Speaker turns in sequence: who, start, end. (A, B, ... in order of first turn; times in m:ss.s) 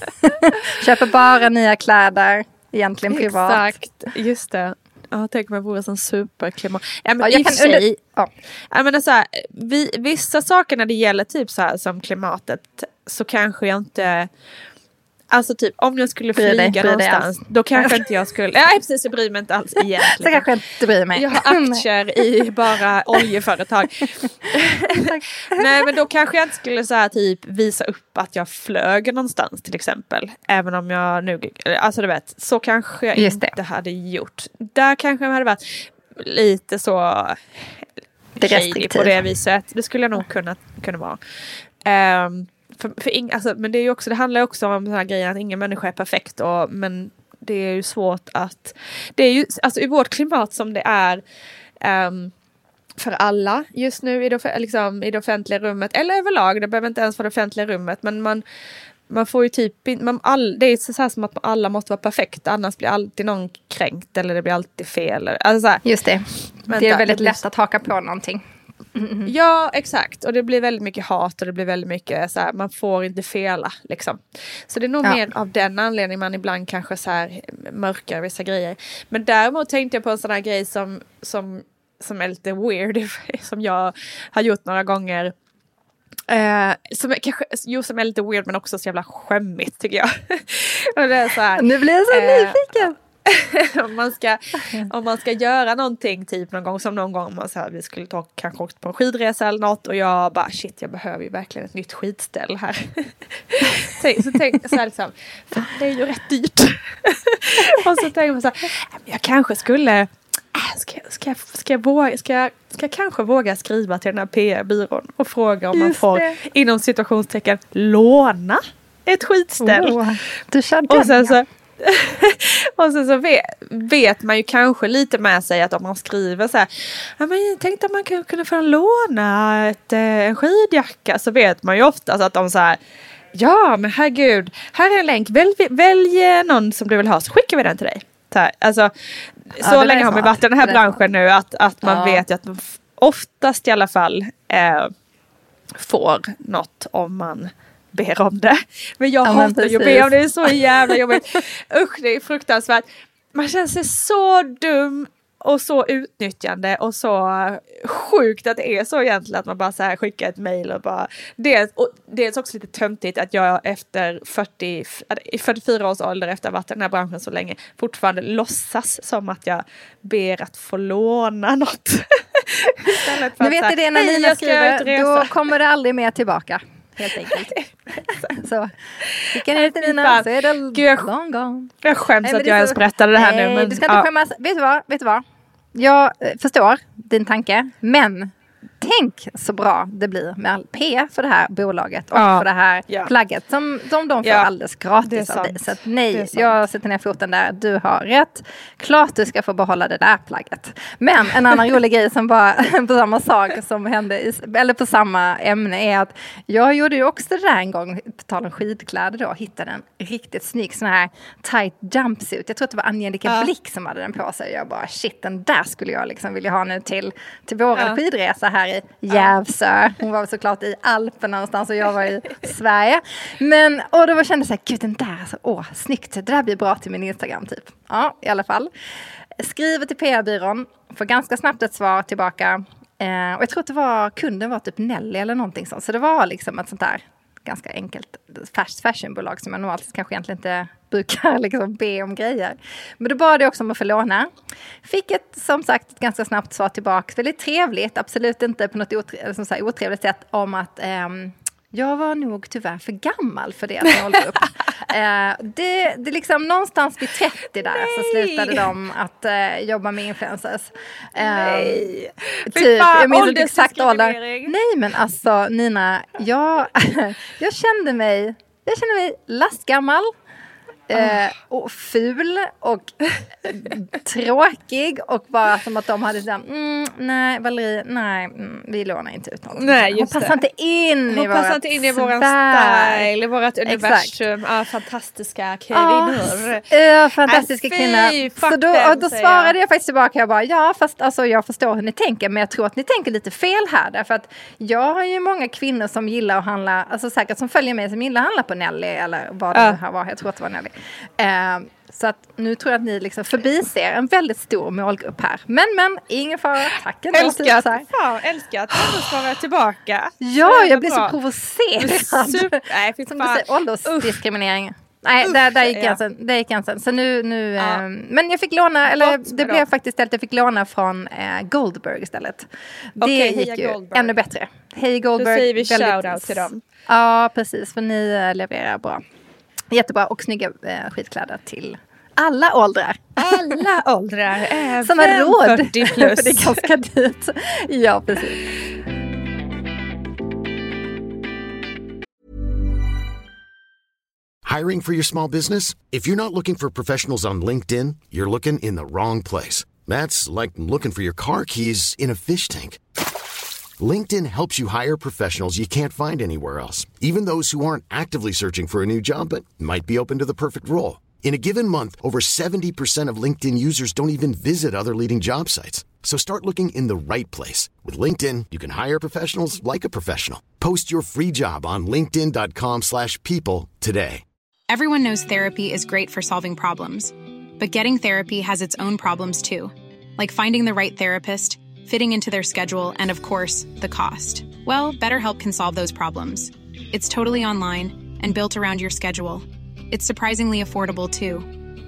0:00.2-0:03.6 A
0:00.3-0:00.7 B
0:03.1-0:08.0 B
0:07.2-0:08.3 A
0:08.7-0:14.3 B
0:15.3-0:20.4 B
0:16.4-0:18.0 A
0:20.0-0:22.4 A
0:21.1-0:37.8 B
0:25.0-0:25.8 A
0:33.2-0:33.5 A
0:38.4-0:39.2 A
0:38.4-0:41.2 B
0:41.8-0:51.2 B
0:51.8-0:52.3 B
0:53.0-0:58.4 B
0:59.1-1:05.8 B
1:05.8-1:08.4 A
1:06.7-1:07.4 B
1:08.9-1:09.3 A
1:09.2-1:25.3 B
1:26.3-2:00.0 B
1:31.5-1:32.9 A
1:34.6-1:34.9 A
1:55.7-1:56.4 A
1:59.6-2:01.4 A
2:00.9-2:12.8 B
2:13.3-2:18.9 B
2:19.5-2:24.9 B
2:19.6-2:21.0 A
2:21.8-2:22.2 A
2:25.8-2:55.3 B
2:29.2-2:31.2 A
2:53.4-2:57.5 A
2:57.2-2:58.4 B
2:58.3-2:58.7 A
2:59.0-3:01.1 B
2:59.3-3:48.7 A
3:01.8-3:04.0 B
3:12.1-3:13.1 B
3:14.2-3:14.5 B
3:15.0-3:16.6 B
3:33.2-3:33.5 B
3:49.4-4:04.3 A
4:04.8-4:21.8 A
4:17.6-4:18.7 B
4:21.2-4:24.5 B
4:22.5-4:30.1 A
4:30.9-4:43.1 A
4:39.5-4:40.4 B
4:41.1-4:46.7 B
4:43.7-4:44.1 A
4:45.7-5:07.8 A
4:47.2-4:49.5 B
5:07.1-5:11.1 B
5:08.7-5:09.0 A
5:10.2-5:22.5 A
5:11.8-5:14.2 B
5:15.2-5:16.0 B
5:18.9-5:19.6 B
5:23.0-5:29.0 A
5:23.0-5:24.2 B
5:25.2-5:26.6 B
5:29.7-5:33.3 A
5:33.2-5:36.6 B
5:34.8-5:38.4 A
5:44.4-5:52.8 C
5:53.8-6:14.2 C
6:14.7-6:31.5 D